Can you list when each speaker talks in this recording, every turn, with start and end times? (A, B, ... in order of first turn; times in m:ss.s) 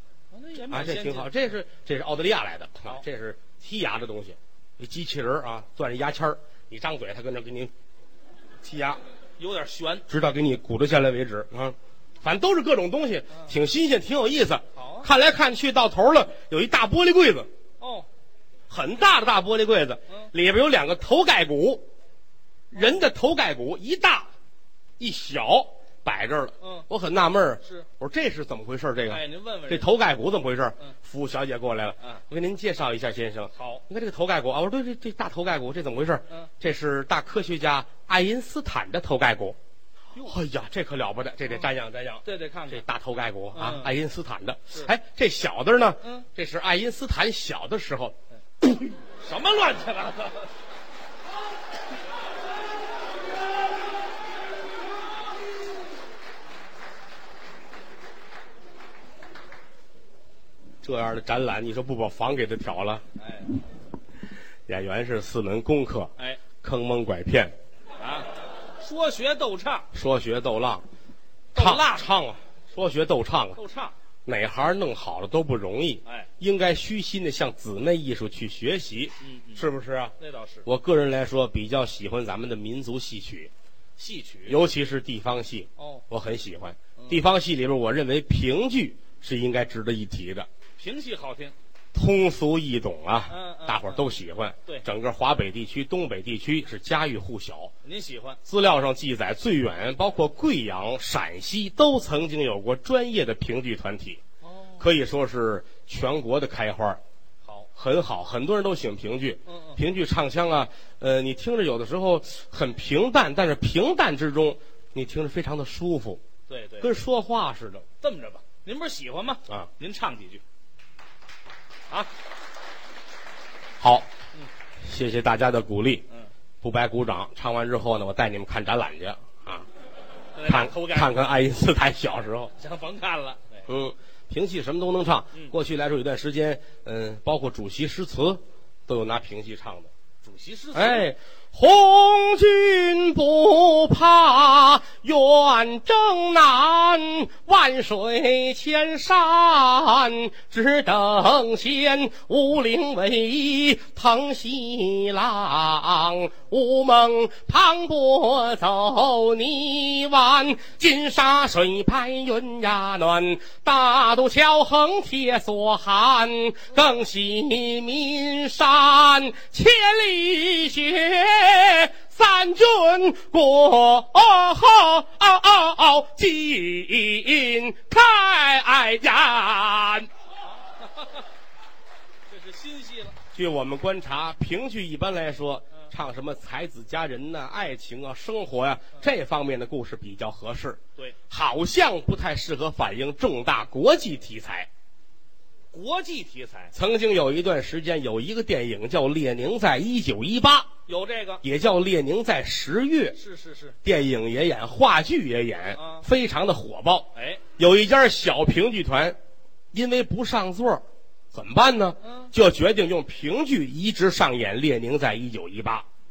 0:00.3-0:01.5 A
0:00.7-0:07.7 B
0:08.6-0:09.0 B
0:09.4-0:10.0 A
0:10.1-0:17.5 B
0:14.8-0:15.1 A
0:17.8-0:18.1 A
0:18.7-0:21.8 B
0:22.7-0:24.3 B
0:25.0-0:39.6 B
0:26.6-0:26.9 A
0:29.1-0:29.9 A
0:33.5-0:33.8 A
0:40.2-0:48.2 B
0:42.2-0:42.8 A
0:43.5-0:43.9 A
0:48.6-0:50.5 A
1:00.8-1:03.0 B
1:03.2-1:03.6 A
1:04.7-1:07.5 B
1:08.0-1:09.9 A
1:09.9-1:10.8 B
1:11.5-1:12.0 A
1:11.5-1:13.6 B
1:13.6-1:13.9 A
1:14.2-1:23.5 B
1:19.2-1:19.6 A
1:20.2-1:20.7 A
1:24.0-1:24.6 A
1:24.5-1:30.5 B
1:25.8-1:26.0 A
1:27.0-1:27.2 A
1:30.8-1:31.5 A
1:31.9-1:37.7 B
1:33.3-1:34.1 A
1:37.8-1:38.4 A
1:38.4-1:44.2 B
1:44.4-1:44.9 A
1:44.8-1:47.0 B
1:47.4-1:47.7 A
1:47.7-1:56.2 B
1:49.4-1:49.8 A
1:56.5-1:56.9 A
1:56.8-1:57.8 B
1:58.0-2:00.4 A
2:03.8-2:04.1 B
2:04.8-2:06.0 B
2:06.6-2:09.7 B
2:10.3-2:11.2 A
2:10.4-2:12.5 B
2:12.6-2:13.6 A
2:13.7-2:19.9 B
2:20.2-2:21.1 A
2:20.7-3:00.1 B
3:00.8-3:01.2 A
3:02.3-3:03.2 A
3:03.3-3:14.7 B
3:15.7-3:16.7 A
3:16.7-3:20.7 B
3:20.9-3:21.4 A
3:21.4-3:23.2 B
3:23.1-3:23.8 A
3:23.8-3:29.2 B
3:25.7-3:26.0 A
3:27.1-3:27.4 A
3:29.7-3:35.8 B
3:32.0-3:32.3 A